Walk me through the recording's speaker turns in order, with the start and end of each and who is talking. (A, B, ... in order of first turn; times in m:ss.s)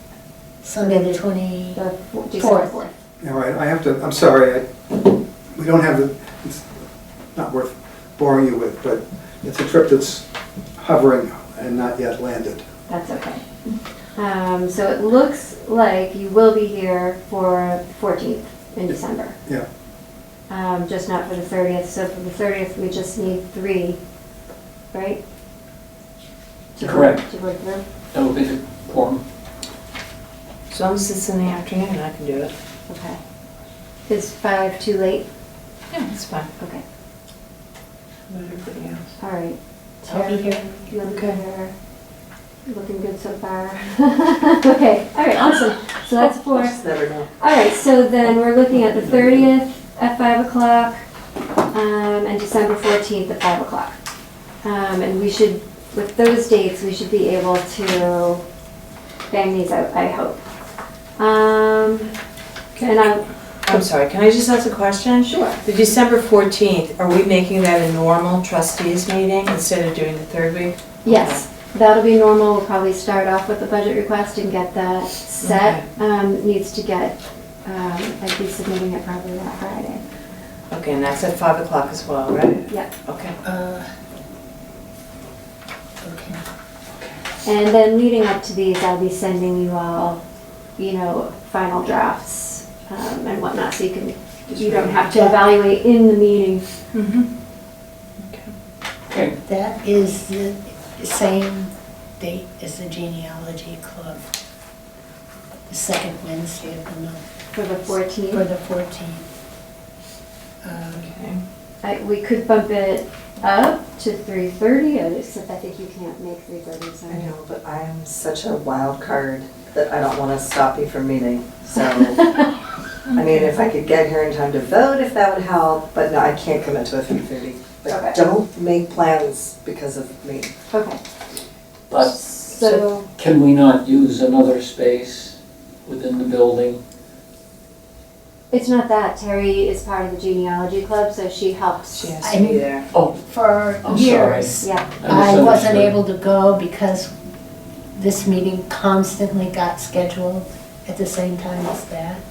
0:00.6-0:02.8 A
0:00.8-0:01.2 B
0:01.7-0:02.9 B
0:03.2-0:06.8 C
0:07.3-0:10.2 C
0:10.8-0:12.6 C
0:12.9-0:13.4 B
0:14.2-0:19.4 B
0:20.5-0:24.0 B
0:24.9-0:25.2 B
0:26.8-0:27.8 B
0:26.8-0:27.3 D
0:28.1-0:29.2 D
0:30.7-0:32.5 E
0:32.9-0:33.2 B
0:34.1-0:35.2 B
0:35.9-0:36.5 E
0:38.3-0:39.0 E
0:39.2-0:41.7 B
0:40.0-0:40.6 A
0:41.1-0:41.4 E
0:42.6-0:46.8 B
0:46.5-0:47.2 E
0:46.9-0:47.2 F
0:47.4-0:51.0 B
0:51.7-0:53.9 B
0:54.6-0:58.4 B
0:59.3-1:00.4 B
1:01.2-1:02.1 B
1:02.8-1:03.2 B
1:03.6-1:11.4 E
1:11.0-1:20.0 B
1:15.4-1:15.8 E
1:20.7-1:23.4 E
1:23.4-1:23.9 A
1:26.0-1:26.4 A
1:27.4-1:30.2 B
1:30.8-1:36.6 B
1:34.5-1:35.0 E
1:35.1-1:35.4 A
1:36.9-1:37.3 E
1:38.2-1:38.5 E
1:39.1-1:39.3 D
1:39.4-1:44.2 A
1:45.7-1:47.2 A
1:47.5-1:48.4 B
1:48.3-1:49.2 A
1:50.6-1:51.1 A
1:50.9-1:51.4 E
1:51.8-1:57.3 B
1:57.1-2:02.2 F
2:01.7-2:02.5 B
2:03.1-2:03.5 E
2:03.1-2:10.5 F
2:07.9-2:08.2 B
2:10.7-2:11.0 B
2:11.9-2:12.2 D
2:12.0-2:13.1 B
2:12.6-2:12.9 E
2:13.2-2:16.8 D
2:18.5-2:22.2 B
2:21.9-2:22.8 E
2:22.2-2:22.6 A
2:22.9-2:23.2 D
2:23.2-2:27.1 A
2:23.8-2:26.0 D
2:24.6-2:24.9 B
2:27.9-2:32.2 A